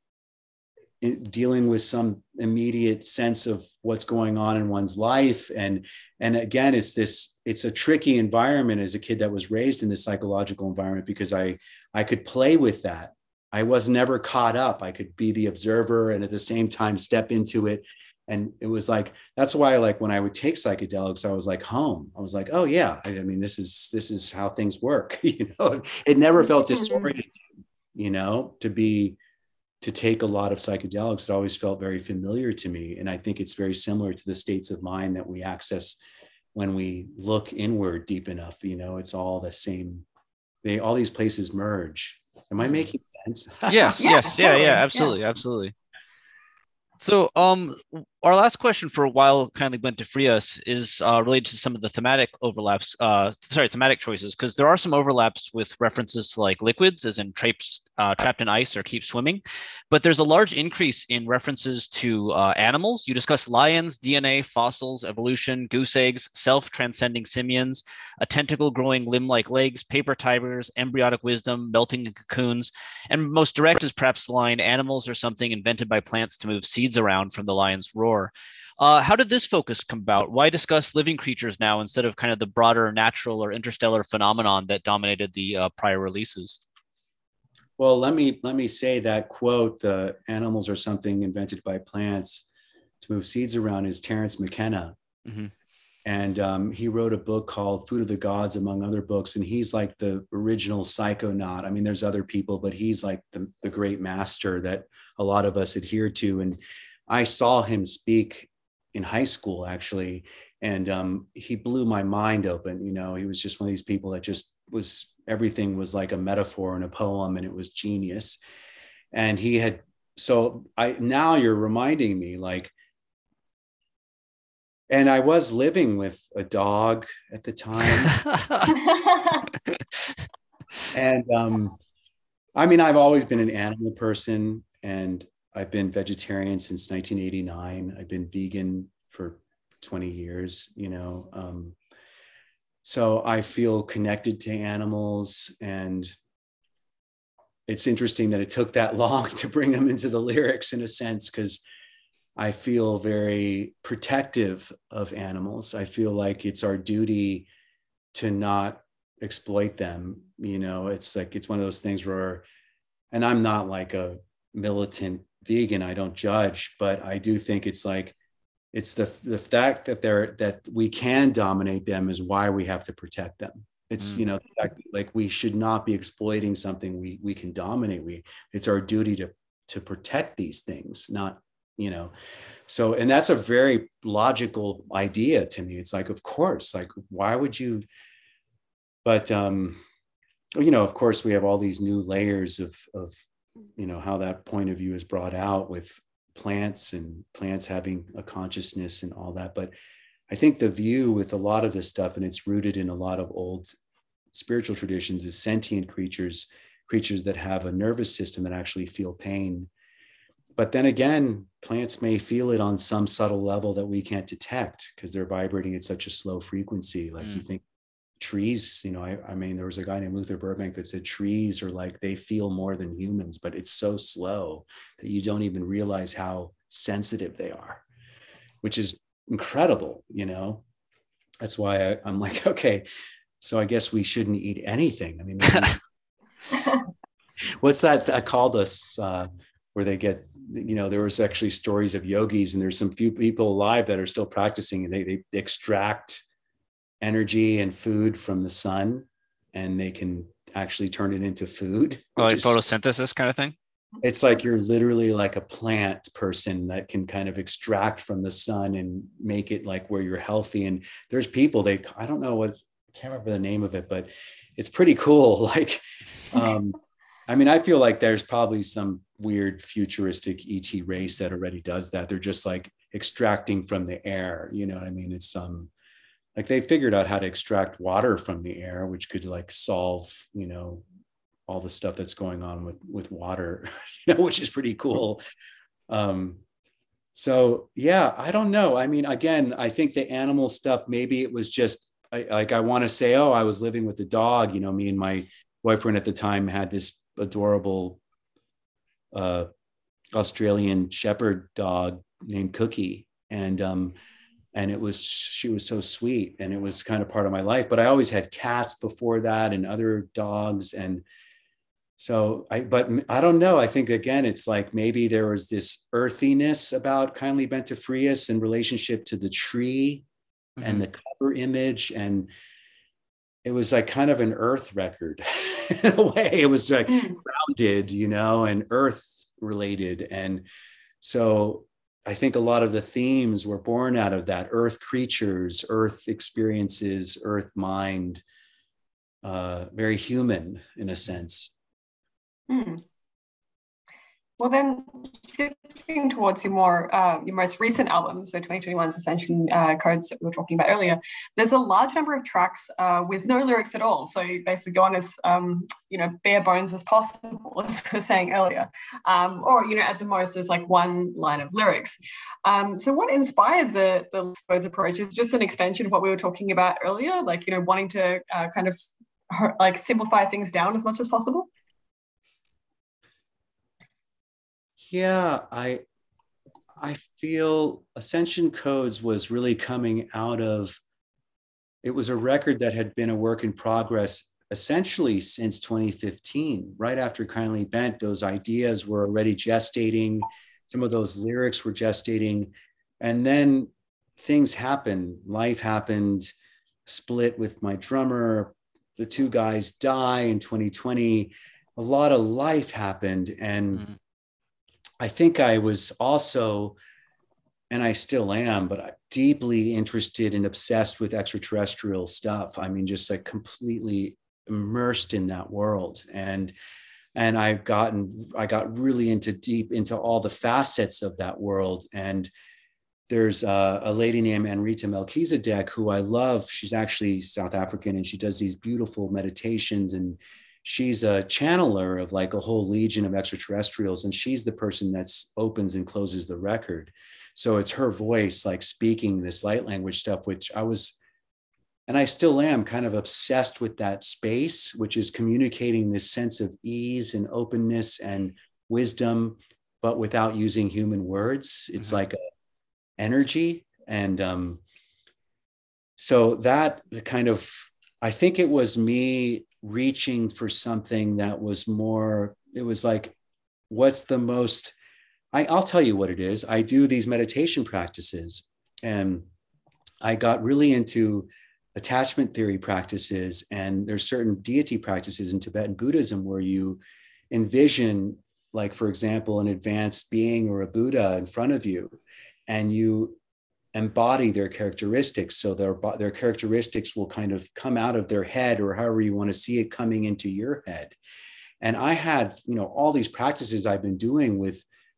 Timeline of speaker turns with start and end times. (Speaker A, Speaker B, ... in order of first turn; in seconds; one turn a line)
Speaker A: 1.0-27.4
Speaker B: 26.7-27.1
Speaker A: 27.9-29.2
Speaker A: 29.8-36.0
Speaker A: 36.5-40.0
Speaker A: 40.6-44.4
Speaker C: 43.7-45.7
Speaker B: 44.0-45.2
Speaker C: 47.0-86.6
Speaker A: 87.8-92.5
Speaker A: 93.0-95.0
Speaker C: 95.2-95.5
Speaker A: 96.0-118.4
Speaker A: 119.1-122.7
Speaker A: 124.9-128.3
Speaker B: 128.9-129.4
Speaker A: 130.9-131.8
Speaker A: 132.6-141.8
Speaker A: 142.8-146.2
Speaker A: 147.7-151.6
Speaker A: 152.4-157.5
Speaker A: 158.1-162.4
Speaker A: 163.1-168.2
Speaker A: 168.7-182.1
Speaker A: 182.7-187.8
Speaker A: 189.1-189.8
Speaker A: 190.6-193.2
Speaker A: 193.8-199.7
Speaker A: 200.3-203.7
Speaker A: 204.3-209.7
Speaker A: 210.6-217.6
Speaker A: 218.2-227.8
Speaker A: 228.6-230.6
Speaker A: 231.4-232.8
Speaker A: 233.4-235.8
Speaker A: 237.4-246.2
Speaker A: 247.0-252.6
Speaker C: 252.2-253.6
Speaker A: 254.0-266.8
Speaker A: 267.3-275.7
Speaker A: 276.4-280.8
Speaker A: 281.5-285.2
Speaker A: 285.9-286.4
Speaker A: 287.1-298.0
Speaker A: 299.1-299.5
Speaker A: 300.1-304.0
Speaker A: 304.5-311.0
Speaker A: 312.0-320.0
Speaker C: 320.6-320.8
Speaker A: 320.6-322.3
Speaker A: 323.4-330.4
Speaker B: 326.9-327.2
Speaker A: 331.0-338.2
Speaker A: 339.2-341.5
Speaker B: 342.5-342.8
Speaker B: 344.4-371.5
Speaker A: 374.8-375.8
Speaker A: 376.8-380.8
Speaker A: 381.8-396.3
Speaker A: 396.9-403.9
Speaker A: 405.0-406.8
Speaker A: 407.7-416.5
Speaker A: 417.1-422.3
Speaker A: 423.1-441.0
Speaker A: 441.9-452.2
Speaker A: 453.0-454.6
Speaker A: 456.0-463.1
Speaker A: 463.7-464.8
Speaker A: 465.3-469.3
Speaker A: 470.0-481.9
Speaker A: 482.5-483.2
Speaker A: 483.7-491.0
Speaker A: 491.6-494.6